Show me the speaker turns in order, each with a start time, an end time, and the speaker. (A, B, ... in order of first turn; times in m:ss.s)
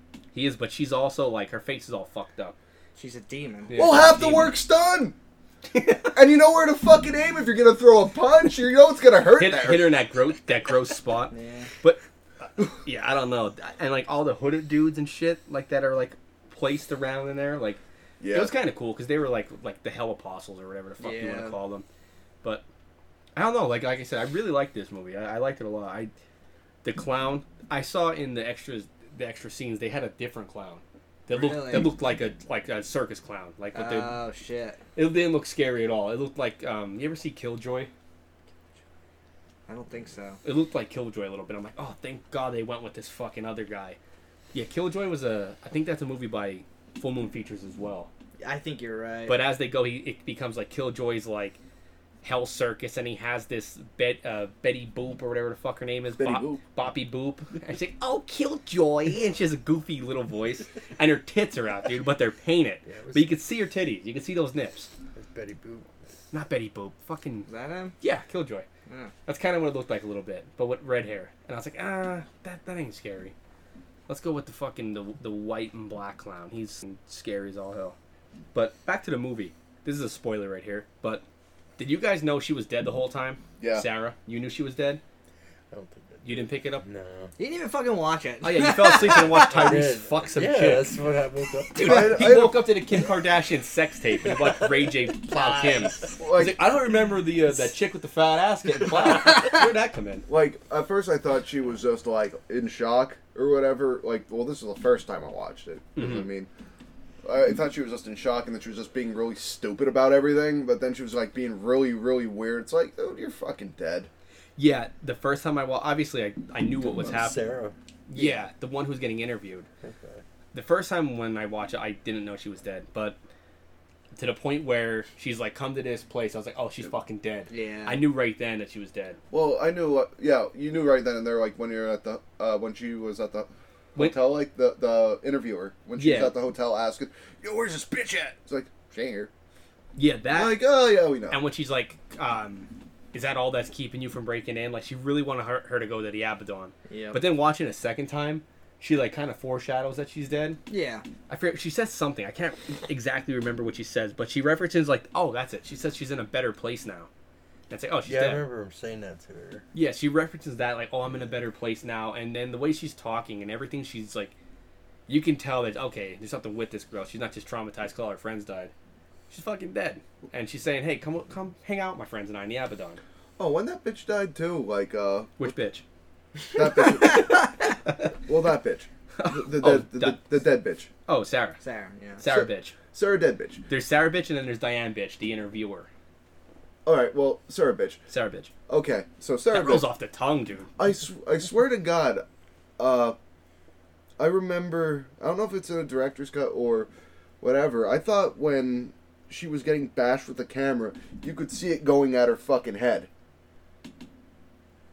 0:00.3-0:02.6 A
0:03.0-0:03.8 B
0:03.7-0:04.6 A
0:03.7-0:05.1 C
0:05.7-0:06.1 A
0:06.1-0:10.0 C
0:09.4-0:21.8 A
0:11.3-0:11.7 B
0:18.2-0:18.5 C
0:21.0-0:21.6 B
0:23.3-0:26.1 A
0:26.8-0:34.2 A
0:31.3-0:31.9 B
0:33.7-0:34.8 B
0:34.9-0:37.9 A
0:39.7-0:40.4 B
0:40.4-0:44.0 A
0:44.5-0:48.1 A
0:48.4-0:49.4 B
0:49.3-0:51.6 A
0:52.2-1:04.9 A
0:56.2-0:56.6 C
1:02.8-1:03.3 D
1:05.1-1:05.9 D
1:06.3-1:07.5 A
1:07.4-1:07.9 B
1:08.0-1:08.6 A
1:08.9-1:09.1 B
1:09.2-1:13.3 A
1:14.1-1:18.0 A
1:18.5-1:21.2 A
1:21.8-1:25.0 A
1:23.6-1:23.8 C
1:25.7-1:27.3 D
1:26.2-1:26.8 A
1:27.4-1:29.7 B
1:28.4-1:30.9 A
1:29.5-1:32.1 D
1:31.7-1:40.2 A
1:31.8-1:32.8 C
1:35.3-1:35.9 B
1:36.2-1:36.6 C
1:40.2-1:46.5 C
1:46.0-1:46.3 A
1:47.2-1:54.1 C
1:54.6-1:57.4 A
1:56.8-1:57.7 D
1:58.1-1:59.7 A
1:58.1-1:58.5 B
1:59.8-2:00.2 D
2:00.5-2:03.2 A
2:04.1-2:09.2 A
2:07.5-2:08.0 B
2:09.3-2:19.3 C
2:16.0-2:16.3 A
2:20.0-2:30.6 A
2:20.3-2:21.4 C
2:26.9-2:27.2 B
2:30.7-2:31.0 B
2:31.3-2:37.1 A
2:37.7-2:38.4 A
2:38.0-2:39.6 D
2:39.7-2:44.3 A
2:45.1-2:48.7 A
2:49.3-2:53.0 A
2:53.4-2:55.4 C
2:55.4-2:55.8 A
2:56.5-2:57.4 C
2:56.8-2:57.5 B
2:58.2-3:00.9 C
2:59.2-3:00.4 A
3:01.1-3:01.6 A
3:01.6-3:02.2 B
3:02.2-3:02.8 A
3:02.2-3:03.6 C
3:03.7-3:05.9 A
3:06.8-3:08.0 C
3:08.1-3:08.5 A
3:08.7-3:09.9 C
3:09.5-3:10.7 A
3:10.8-3:12.2 C
3:12.8-3:13.2 C
3:14.2-3:16.9 C
3:17.4-3:23.1 C